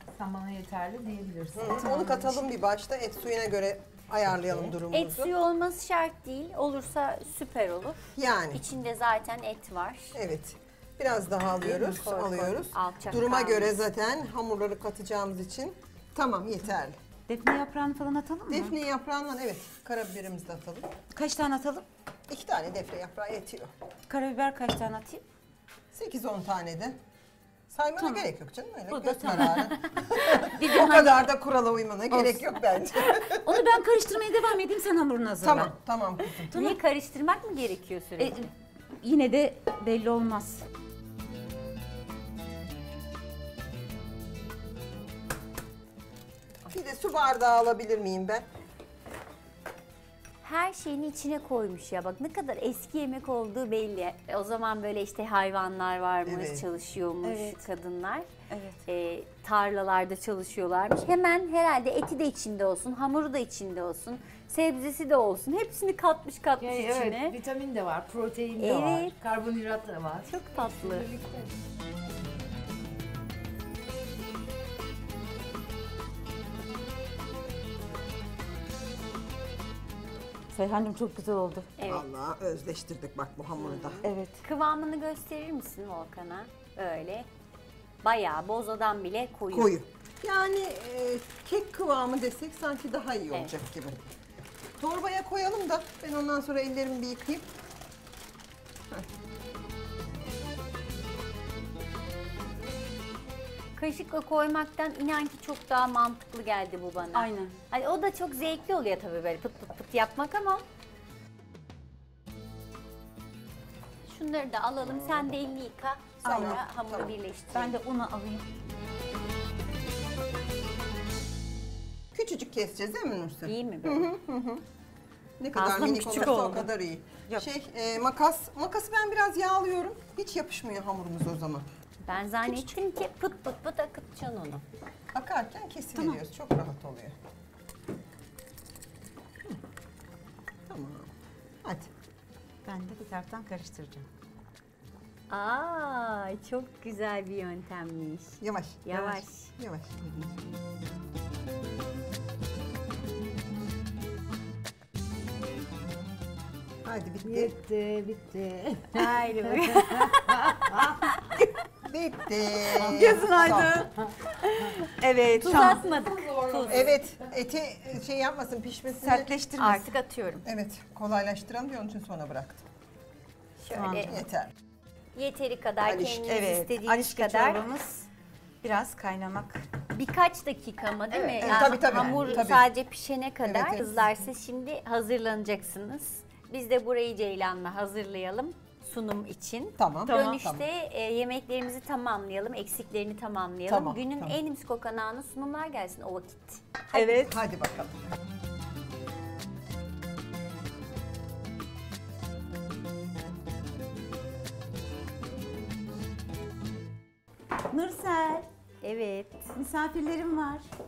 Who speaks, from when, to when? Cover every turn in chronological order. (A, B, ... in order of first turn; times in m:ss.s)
0:00.1-0:02.4 A
0:01.6-0:05.3 B
0:04.9-0:08.0 C
0:08.2-0:08.6 B
0:08.5-0:10.2 C
0:10.2-0:17.0 B
0:11.6-0:13.8 C
0:17.3-0:18.8 D
0:18.5-0:20.9 B
0:21.1-0:21.9 D
0:22.3-0:23.7 B
0:24.1-0:25.2 D
0:25.9-0:27.0 B
0:27.7-0:33.5 B
0:28.0-0:28.3 D
0:28.9-0:29.7 D
0:29.6-0:31.3 C
0:32.1-0:32.5 D
0:33.2-0:35.7 D
0:35.4-0:36.5 B
0:36.5-0:36.8 D
0:36.5-0:38.5 C
0:38.2-0:38.5 D
0:39.0-0:40.6 D
0:46.7-0:48.4 B
0:50.4-0:58.3 C
0:56.2-0:56.6 B
0:57.2-0:57.6 D
0:58.5-0:58.8 D
0:58.9-1:07.4 C
1:06.6-1:11.6 A
1:08.6-1:09.2 C
1:10.3-1:11.1 C
1:20.5-1:21.7 D
1:21.8-1:22.1 C
1:21.9-1:24.0 B
1:23.6-1:27.3 C
1:24.0-1:24.4 D
1:28.0-1:29.7 C
1:29.5-1:34.0 B
1:34.8-1:37.5 B
1:43.8-1:50.6 C
1:47.1-1:47.6 D
1:54.1-1:57.8 C
1:54.9-1:55.3 B
1:56.2-1:57.1 B
1:57.5-1:58.4 D
2:02.1-2:04.6 B
2:03.5-2:04.1 C
2:05.4-2:11.7 B
2:05.6-2:06.7 C
2:12.1-2:14.6 C
2:12.5-2:12.7 D
2:15.1-2:17.2 B
2:20.7-2:21.1 B
2:21.6-2:21.9 B
2:22.6-2:24.1 D
2:25.3-2:29.5 C
2:28.4-2:30.4 B
2:36.8-2:37.5 B
2:37.2-2:41.0 A
2:38.9-2:41.3 C
2:41.8-2:43.8 B
2:42.8-2:43.9 D
2:44.4-2:47.0 C
2:45.0-2:45.8 D
2:45.4-2:47.2 A
2:46.7-2:49.3 B
2:49.0-2:49.9 D
2:49.6-2:50.4 C
2:50.4-2:52.6 B
2:53.7-2:54.5 B
2:53.7-2:54.2 D
2:55.2-2:57.6 C
2:55.8-2:56.3 B
2:56.2-2:58.1 D
2:58.6-2:59.7 D
2:59.9-3:17.3 C
3:01.1-3:02.3 D
3:01.4-3:02.7 B
3:03.4-3:04.0 B
3:09.8-3:10.6 B
3:10.1-3:10.4 D
3:13.7-3:14.4 B
3:16.9-3:17.4 D
3:17.1-3:18.1 B
3:27.7-3:28.5 D
3:28.8-3:29.5 C
3:29.6-3:30.7 D